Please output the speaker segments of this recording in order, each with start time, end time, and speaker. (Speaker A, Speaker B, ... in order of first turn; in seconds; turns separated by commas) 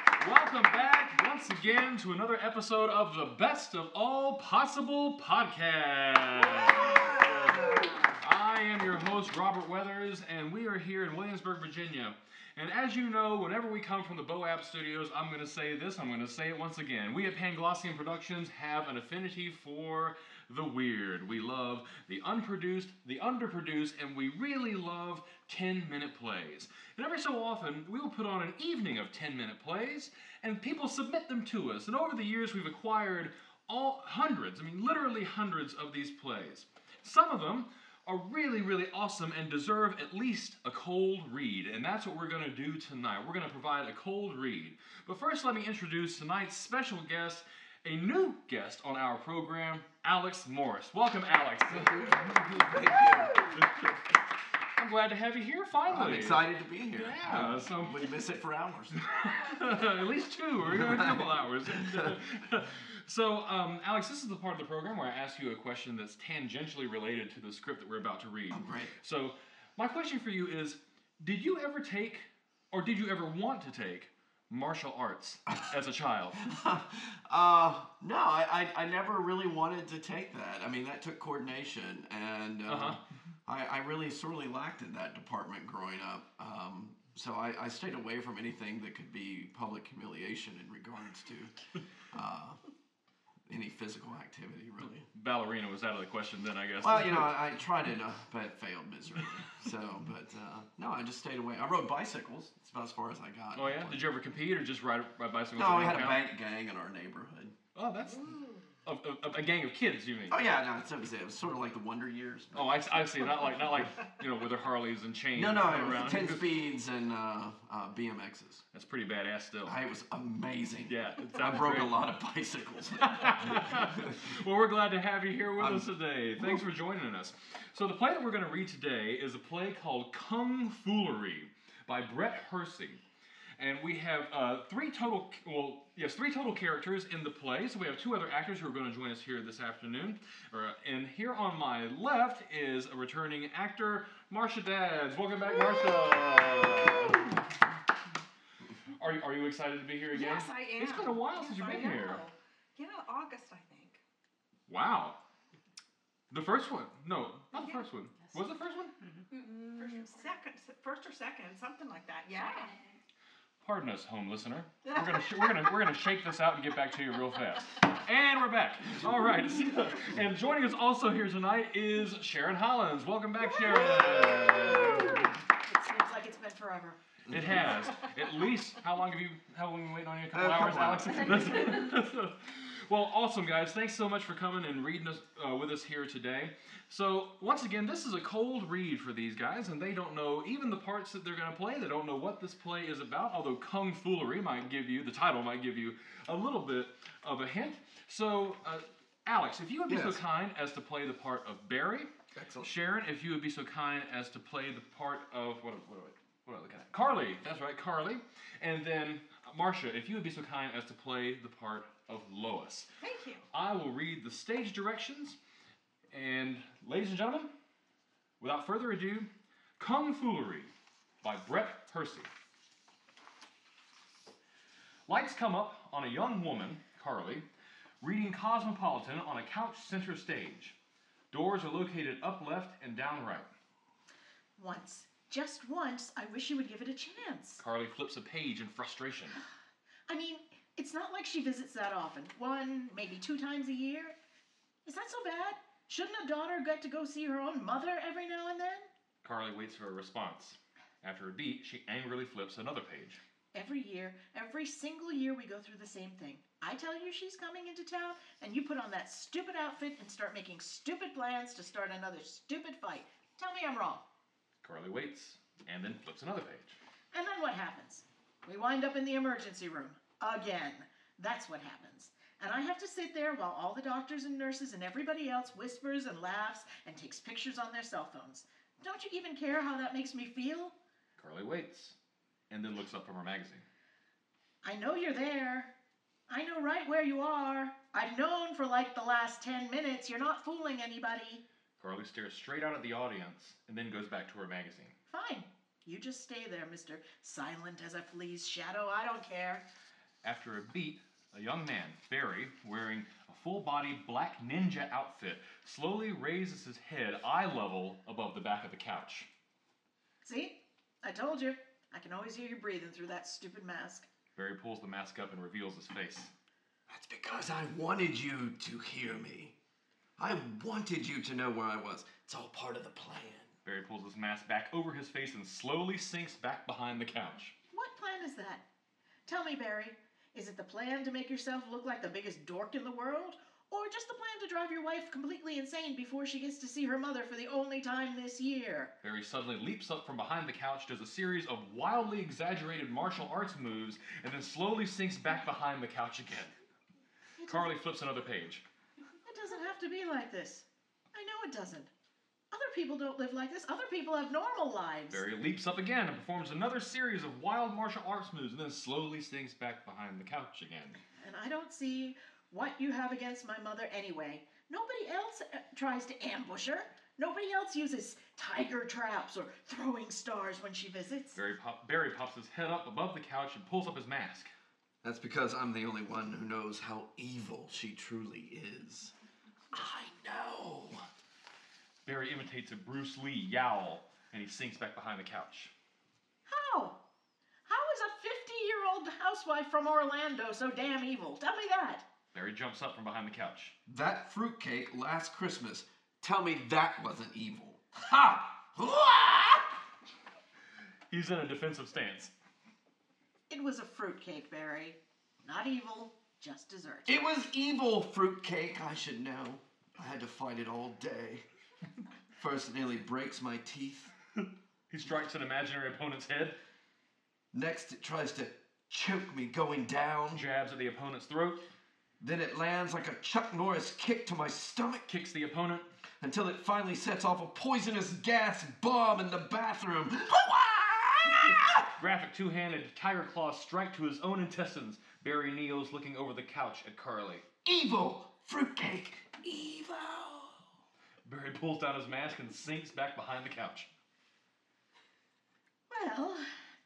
Speaker A: 0.2-52.3, Speaker B: 6.3-8.1, Speaker C: 51.7-53.6, Speaker B: 52.1-53.7, Speaker A: 54.8-58.1, Speaker C: 55.9-59.0, Speaker A: 58.9-76.4, Speaker C: 60.6-62.2, Speaker C: 68.5-68.9, Speaker C: 76.4-91.5, Speaker A: 82.7-83.0, Speaker C: 92.1-92.6, Speaker C: 93.5-95.1, Speaker A: 95.1-97.3, Speaker C: 96.8-104.0, Speaker A: 103.5-106.2, Speaker C: 105.6-107.6, Speaker A: 107.8-110.4, Speaker B: 108.3-108.5, Speaker C: 110.3-112.7, Speaker A: 112.5-116.5, Speaker C: 115.4-118.6, Speaker A: 118.7-119.8, Speaker C: 119.7-124.3, Speaker A: 120.9-122.0, Speaker A: 123.0-133.0, Speaker C: 125.6-126.6, Speaker A: 133.6-147.4, Speaker B: 145.4-147.4, Speaker A: 149.0-152.2, Speaker B: 150.1-154.0, Speaker A: 154.7-155.2, Speaker A: 156.3-158.9, Speaker B: 157.5-157.8, Speaker B: 159.3-162.9, Speaker A: 163.6-175.3, Speaker B: 164.9-165.9, Speaker B: 173.5-175.3, Speaker D: 175.6-177.0, Speaker C: 177.2-177.8, Speaker A: 177.3-202.1, Speaker C: 180.3-181.8, Speaker C: 199.9-200.2, Speaker C: 202.3-202.7, Speaker A: 202.6-212.9, Speaker B: 213.0-213.5, Speaker A: 213.5-215.4, Speaker A: 216.1-217.5, Speaker A: 218.4-220.7, Speaker A: 221.2-222.3, Speaker A: 225.1-227.5, Speaker A: 228.0-230.8, Speaker A: 231.3-233.5, Speaker D: 234.6-237.6, Speaker A: 237.6-239.4, Speaker D: 240.1-244.2, Speaker D: 244.8-248.9, Speaker A: 249.2-253.2, Speaker D: 253.5-264.1, Speaker A: 264.6-266.8, Speaker D: 267.1-280.8, Speaker A: 281.2-282.0, Speaker A: 282.5-283.6, Speaker D: 284.6-285.7, Speaker D: 286.3-291.4, Speaker A: 291.8-294.9, Speaker D: 295.1-299.7, Speaker A: 300.2-309.3, Speaker D: 310.2-314.1, Speaker A: 314.4-316.3, Speaker C: 316.9-319.6, Speaker C: 320.2-323.5, Speaker A: 323.6-327.6, Speaker D: 327.7-328.6, Speaker D: 329.3-338.9, Speaker A: 339.0-346.5, Speaker D: 347.4-347.7, Speaker A: 347.5-348.6, Speaker D: 349.2-351.9, Speaker D: 352.5-355.2, Speaker A: 355.1-361.0, Speaker D: 361.2-371.4, Speaker A: 371.4-374.5, Speaker C: 375.0-379.1, Speaker C: 379.7-381.1, Speaker A: 382.1-385.7, Speaker D: 386.5-387.0, Speaker D: 387.7-392.1, Speaker A: 392.3-393.8, Speaker C: 393.9-399.8, Speaker A: 401.1-402.3, Speaker D: 403.5-407.2, Speaker C: 407.1-411.4, Speaker C: 412.4-414.1, Speaker A: 414.9-416.6, Speaker C: 417.5-420.4, Speaker A: 420.3-421.7, Speaker C: 422.2-425.1, Speaker A: 425.1-425.9, Speaker C: 426.2-431.9, Speaker A: 431.9-437.5, Speaker C: 437.6-440.6, Speaker A: 441.2-443.9, Speaker D: 445.9-446.5